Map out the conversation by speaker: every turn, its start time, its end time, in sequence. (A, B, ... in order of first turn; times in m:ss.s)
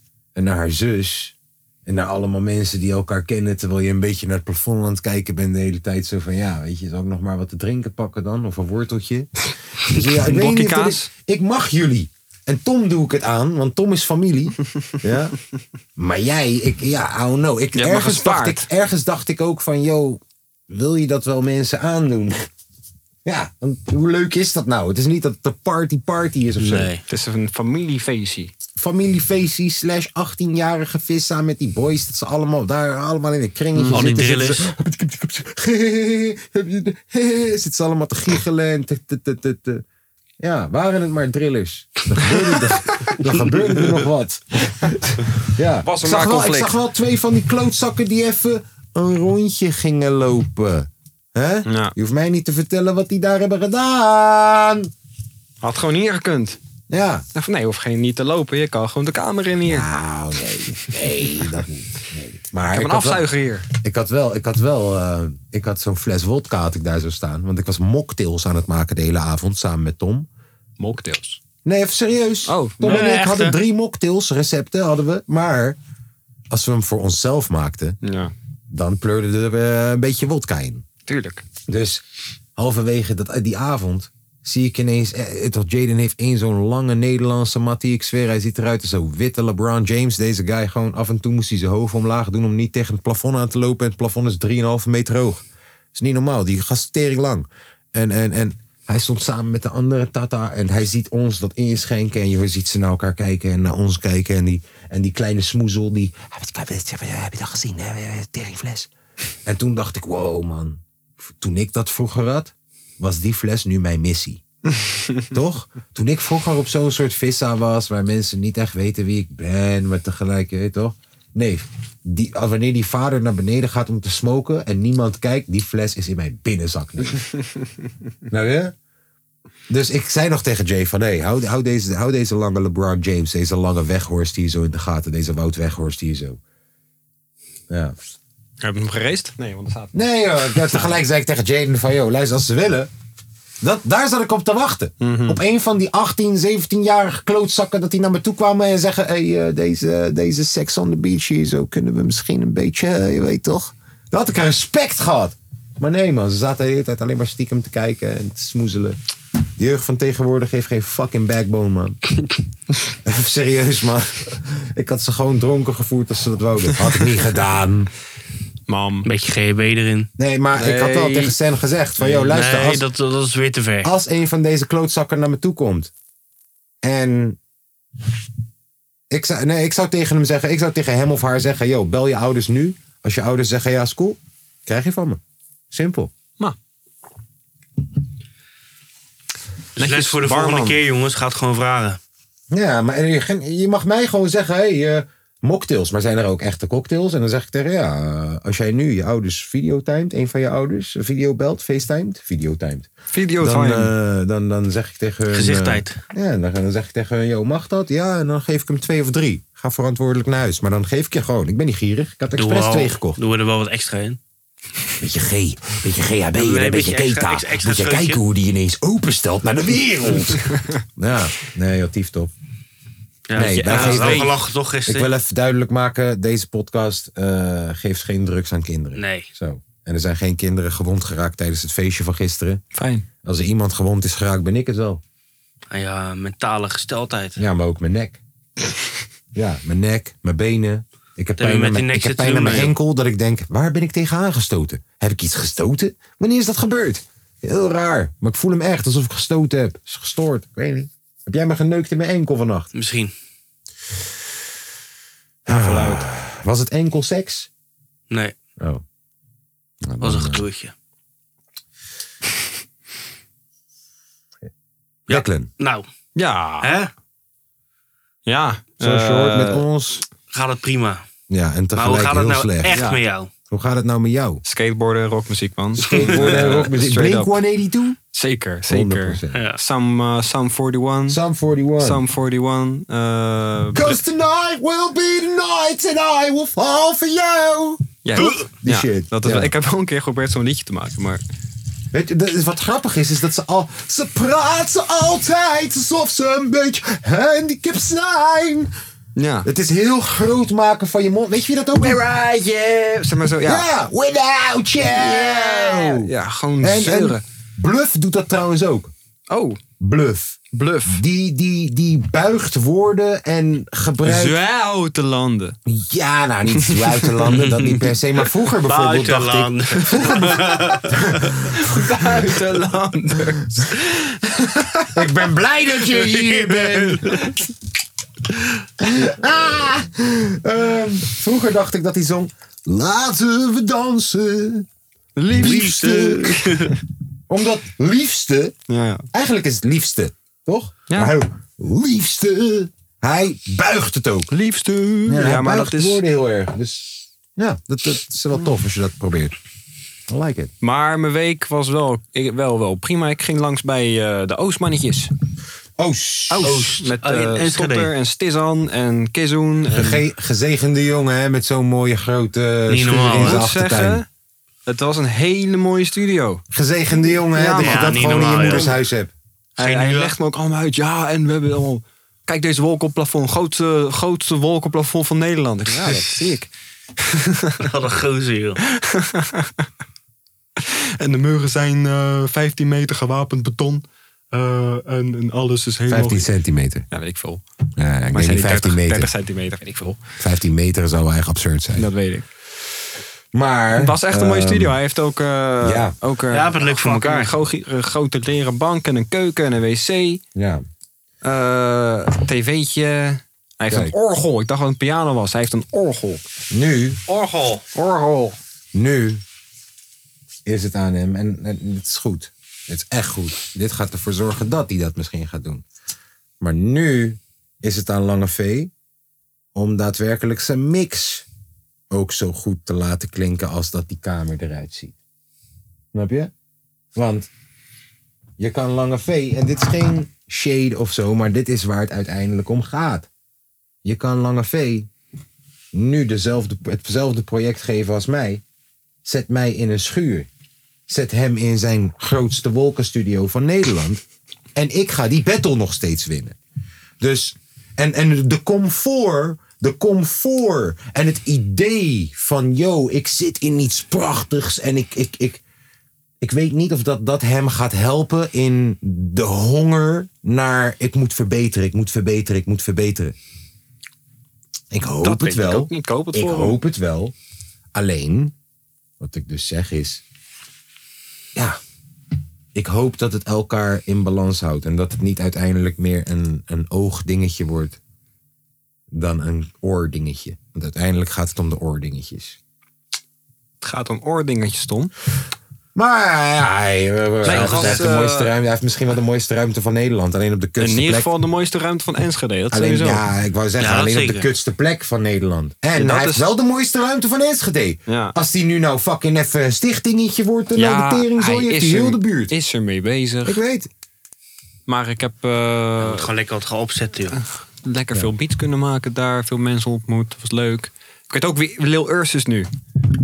0:00.3-0:01.3 A
0:01.8-0:15.4 A
0:10.0-0:11.1 B
0:16.0-0:22.5 A
0:17.7-0:18.7 B
0:23.2-0:26.9 A
0:26.6-0:27.0 C
0:27.1-0:28.5 B
0:28.8-0:39.8 A
0:33.7-0:34.2 B
0:33.9-0:34.7 C
0:40.4-0:54.9 A
0:45.8-0:46.7 B
0:51.6-0:51.9 B
0:55.6-0:56.6 B
0:56.9-0:57.2 A
0:57.3-0:59.9 B
0:59.6-1:10.3 A
1:02.7-1:03.7 B
1:10.8-1:11.4 B
1:11.6-1:15.8 A
1:12.4-1:13.0 B
1:12.8-1:13.6 C
1:16.5-1:18.0 A
1:18.0-1:18.3 B
1:18.7-1:20.8 A
1:21.0-1:21.4 B
1:21.7-1:22.0 A
1:22.6-1:48.9 A
1:49.4-1:54.4 A
1:55.3-2:07.2 A
2:08.3-2:08.7 A
2:09.7-2:16.4 A
2:17.7-2:17.9 A
2:18.6-2:19.9 B
2:19.9-2:22.9 A
2:20.5-2:20.9 B
2:23.6-2:39.0 A
2:25.0-2:25.4 B
2:39.6-2:42.0 A
2:43.0-2:47.9 A
2:48.7-2:49.1 B
2:49.0-2:50.1 C
2:50.2-2:52.8 A
2:50.5-2:51.3 B
2:52.2-2:53.9 C
2:53.8-2:55.9 A
2:56.8-2:57.4 A
2:59.1-3:05.2 A
3:05.7-3:06.1 A
3:09.8-3:10.8 B
3:09.8-3:12.0 C
3:12.5-3:33.2 A
3:23.1-3:23.9 B
3:25.3-3:26.0 C
3:32.4-3:34.2 C
3:35.0-3:42.3 A
3:36.4-3:38.2 C
3:40.3-3:40.7 B
3:43.3-3:45.1 C
3:43.3-3:44.3 A
3:43.4-3:44.3 B
3:44.9-3:52.6 A
3:48.9-3:49.3 C
3:52.7-3:53.0 B
3:53.2-3:55.0 A
3:55.7-3:57.4 C
3:57.4-3:58.2 A
3:59.3-4:12.7 A
4:01.4-4:02.7 C
4:12.7-4:13.1 C
4:15.4-4:17.5 A
4:15.5-4:16.1 B
4:18.1-4:18.3 C
4:19.8-4:20.4 A
4:20.0-4:20.7 C
4:25.1-4:25.8 C
4:25.1-4:25.5 A
4:26.2-4:26.7 B
4:26.6-4:26.9 C
4:28.2-4:29.6 B
4:28.8-4:30.0 A
4:30.3-4:31.0 C
4:31.3-4:34.4 A
4:31.7-4:33.3 C
4:34.4-4:37.3 B
4:35.8-4:38.0 A
4:35.9-4:36.4 C
4:38.1-4:41.2 B
4:38.7-4:39.4 A
4:39.3-4:39.6 C
4:41.1-4:42.0 A
4:41.8-4:44.0 B
4:43.7-4:49.5 A
4:48.0-4:51.2 B
4:48.2-4:48.4 C
4:51.9-4:58.7 A
4:59.2-4:59.5 B
4:59.4-5:02.0 A
5:01.8-5:03.6 B
5:03.4-5:08.9 A
5:04.9-5:07.2 B
5:09.3-5:09.6 B
5:09.8-5:14.4 A
5:10.5-5:11.0 B
5:14.0-5:15.6 B
5:15.6-5:21.9 A
5:16.6-5:17.1 B
5:17.3-5:17.9 C
5:18.6-5:21.3 C
5:21.3-5:25.0 B
5:24.9-5:27.3 A
5:25.9-5:27.2 C
5:28.8-5:34.7 A
5:35.2-5:36.1 B
5:35.3-5:36.7 A
5:35.4-5:36.8 C
5:37.3-5:38.6 A
5:38.7-5:39.0 B
5:39.1-5:44.3 A
5:44.3-5:46.0 B
5:45.0-5:49.4 A
5:50.1-5:50.5 A
5:50.6-5:55.1 B
5:55.8-5:56.9 A
5:56.3-6:00.0 B
5:56.8-5:57.9 C
5:59.7-6:04.0 A
6:02.7-6:03.4 C
6:03.2-6:04.1 B
6:04.7-6:06.4 B
6:06.5-6:09.1 A
6:07.3-6:08.6 B
6:07.6-6:08.8 C
6:09.6-6:10.1 C
6:09.6-6:16.5 B
6:17.0-6:17.6 B
6:17.6-6:18.6 C
6:18.7-6:19.6 B
6:20.6-6:26.3 B
6:25.9-6:26.9 A
6:26.9-6:27.4 B
6:27.8-6:29.1 A
6:28.1-6:30.0 B
6:30.2-6:31.9 A
6:31.7-6:32.3 B
6:33.3-6:34.8 A
6:33.7-6:40.2 B
6:35.6-6:36.0 A
6:36.3-6:37.4 C
6:40.3-6:40.6 A
6:41.2-6:46.2 B
6:43.7-6:43.9 A
6:46.5-6:47.0 A
6:47.1-6:48.4 B
6:48.7-6:49.2 A
6:50.4-6:55.6 A
6:56.4-6:58.7 A
6:59.5-7:01.2 A
7:01.9-7:05.0 A
7:05.9-7:06.3 A
7:06.9-7:07.3 A
7:08.4-7:13.1 A
7:13.8-7:14.9 A
7:15.7-7:18.4 A
7:19.0-7:20.3 A
7:20.9-7:24.0 A
7:24.5-7:26.4 A
7:27.0-7:35.4 A
7:36.2-7:43.2 A
7:44.7-7:47.1 A
7:45.0-7:46.6 B
7:47.7-7:48.3 A
7:49.0-7:50.0 A
7:52.5-7:57.8 A
7:58.9-8:02.4 A
8:03.6-8:04.9 B
8:05.7-8:11.1 A
8:07.2-8:08.3 B
8:07.3-8:07.9 C
8:10.6-8:13.0 B
8:12.5-8:22.3 A
8:13.6-8:14.3 C
8:15.7-8:16.3 B
8:17.9-8:18.1 B
8:20.5-8:23.4 B
8:23.2-8:23.7 A
8:24.7-8:26.1 B
8:25.8-8:27.2 C
8:27.1-8:32.5 B